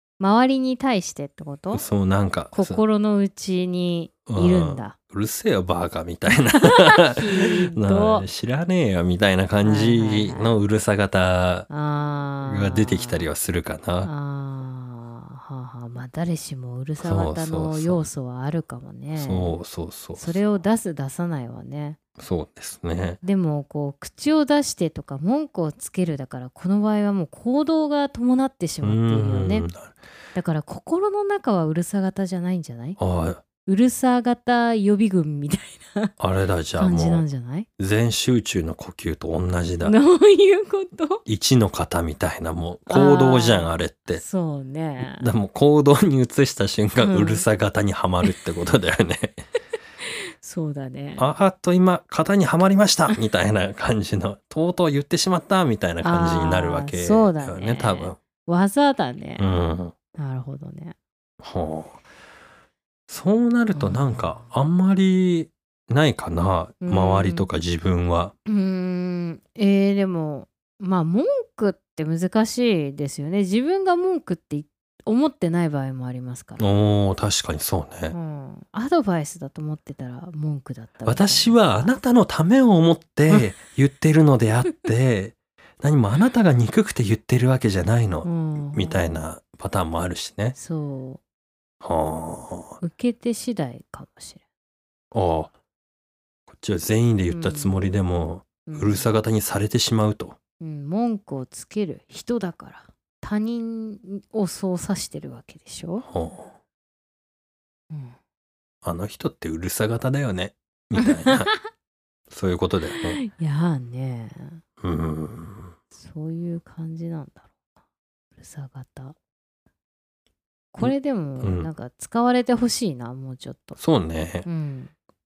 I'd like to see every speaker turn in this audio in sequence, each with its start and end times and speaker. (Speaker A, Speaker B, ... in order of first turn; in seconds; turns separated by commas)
Speaker A: 0.2-1.8, Speaker B: 1.7-2.8, Speaker A: 2.5-5.0, Speaker B: 4.3-11.7, Speaker A: 6.3-8.2, Speaker A: 9.6-10.5, Speaker A: 11.7-13.3, Speaker B: 12.4-14.1, Speaker A: 14.0-19.6, Speaker B: 17.0-18.0, Speaker B: 19.1-20.4, Speaker A: 20.2-22.0, Speaker B: 22.2-23.2, Speaker A: 23.2-29.7, Speaker B: 28.8-29.9, Speaker A: 30.3-33.0, Speaker B: 33.0-33.4, Speaker A: 33.6-36.1, Speaker B: 36.2-37.2, Speaker A: 36.8-37.7, Speaker B: 37.8-40.0, Speaker A: 39.8-41.2, Speaker B: 41.2-44.2, Speaker A: 42.9-45.3, Speaker B: 45.0-49.4, Speaker A: 47.0-47.5, Speaker A: 50.0-51.2, Speaker B: 51.2-58.2, Speaker A: 56.0-59.6, Speaker B: 59.4-59.9, Speaker A: 60.1-61.0, Speaker B: 61.4-62.0, Speaker B: 63.1-68.3, Speaker A: 63.7-64.5, Speaker A: 66.8-67.5, Speaker A: 68.5-76.7, Speaker B: 76.6-78.2, Speaker A: 78.1-81.9, Speaker B: 81.0-90.5, Speaker A: 88.2-89.1, Speaker A: 90.5-91.2, Speaker B: 91.8-92.8, Speaker A: 92.8-94.4, Speaker B: 95.1-95.5, Speaker B: 96.5-100.4, Speaker A: 97.3-97.7, Speaker A: 98.7-99.1, Speaker A: 100.6-106.0, Speaker B: 106.0-106.5, Speaker A: 107.9-108.2, Speaker B: 108.8-111.5, Speaker A: 111.0-111.6, Speaker B: 112.3-113.2, Speaker A: 112.9-114.6, Speaker B: 114.8-115.7, Speaker A: 115.9-117.7, Speaker A: 118.4-119.1, Speaker A: 120.7-123.8, Speaker B: 120.8-121.7, Speaker B: 123.8-124.5, Speaker A: 124.4-124.9